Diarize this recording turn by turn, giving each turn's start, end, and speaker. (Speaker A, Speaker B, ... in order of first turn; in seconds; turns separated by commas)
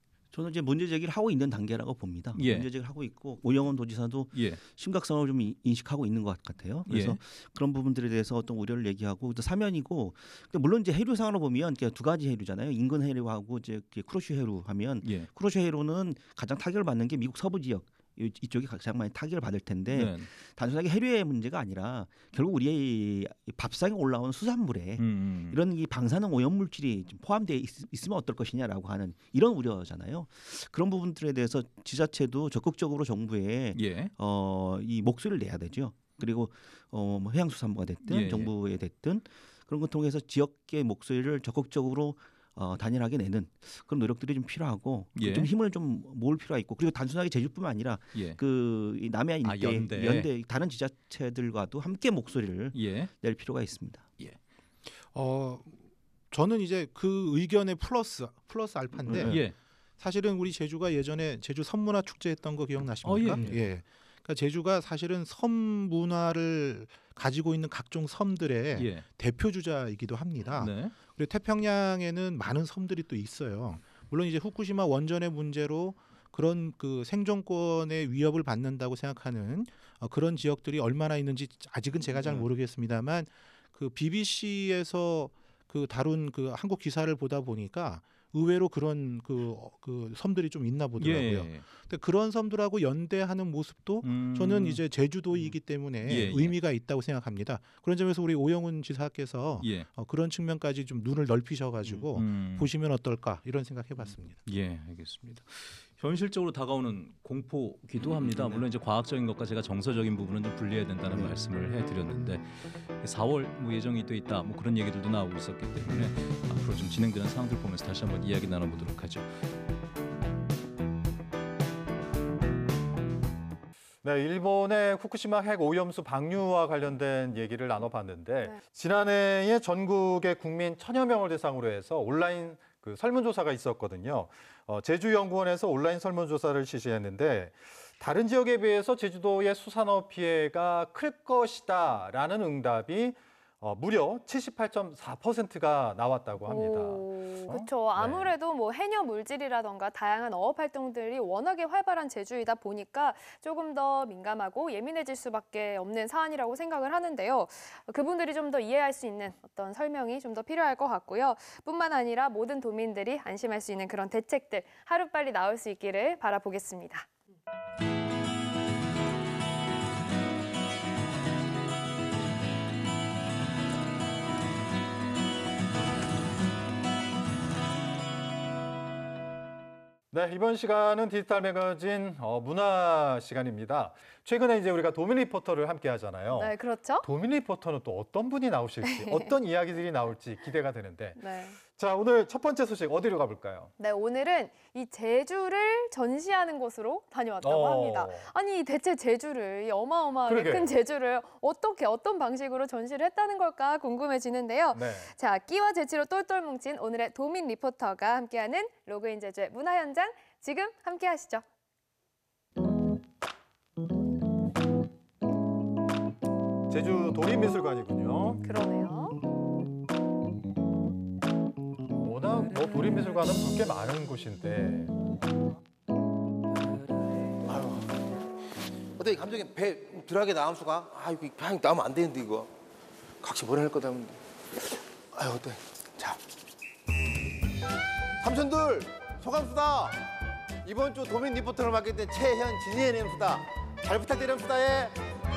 Speaker A: 0.3-54.1, Speaker B: 2.3-2.7, Speaker B: 4.3-4.6, Speaker B: 6.9-7.2, Speaker B: 15.0-15.3, Speaker B: 19.9-20.3, Speaker B: 25.0-25.6, Speaker B: 33.7-34.1, Speaker B: 38.0-38.5, Speaker B: 45.1-45.5, Speaker B: 48.1-48.4, Speaker B: 49.4-50.3, Speaker B: 52.7-53.1, Speaker C: 55.1-55.8, Speaker C: 56.3-59.4, Speaker A: 59.0-59.4, Speaker B: 59.2-59.5, Speaker C: 60.0-104.4, Speaker B: 63.0-63.6, Speaker B: 68.7-69.1, Speaker B: 70.5-71.0, Speaker A: 82.2-82.5, Speaker B: 91.0-91.7, Speaker B: 94.0-94.8, Speaker B: 96.0-96.5, Speaker B: 99.6-99.9, Speaker B: 102.1-102.7, Speaker B: 104.5-119.4, Speaker A: 108.0-108.7, Speaker A: 111.0-111.3, Speaker D: 124.0-148.3, Speaker E: 146.4-167.1, Speaker D: 180.1-193.7, Speaker E: 186.3-187.1, Speaker E: 188.8-189.3, Speaker E: 191.2-191.6, Speaker E: 193.8-211.4, Speaker D: 197.4-198.3, Speaker D: 200.3-200.7, Speaker D: 204.7-205.1, Speaker D: 216.7-218.4, Speaker E: 218.4-219.2, Speaker D: 222.0-224.9, Speaker F: 227.4-227.8, Speaker F: 229.0-232.5, Speaker F: 233.2-234.2, Speaker F: 235.1-236.2, Speaker F: 238.2-239.9, Speaker F: 240.7-244.9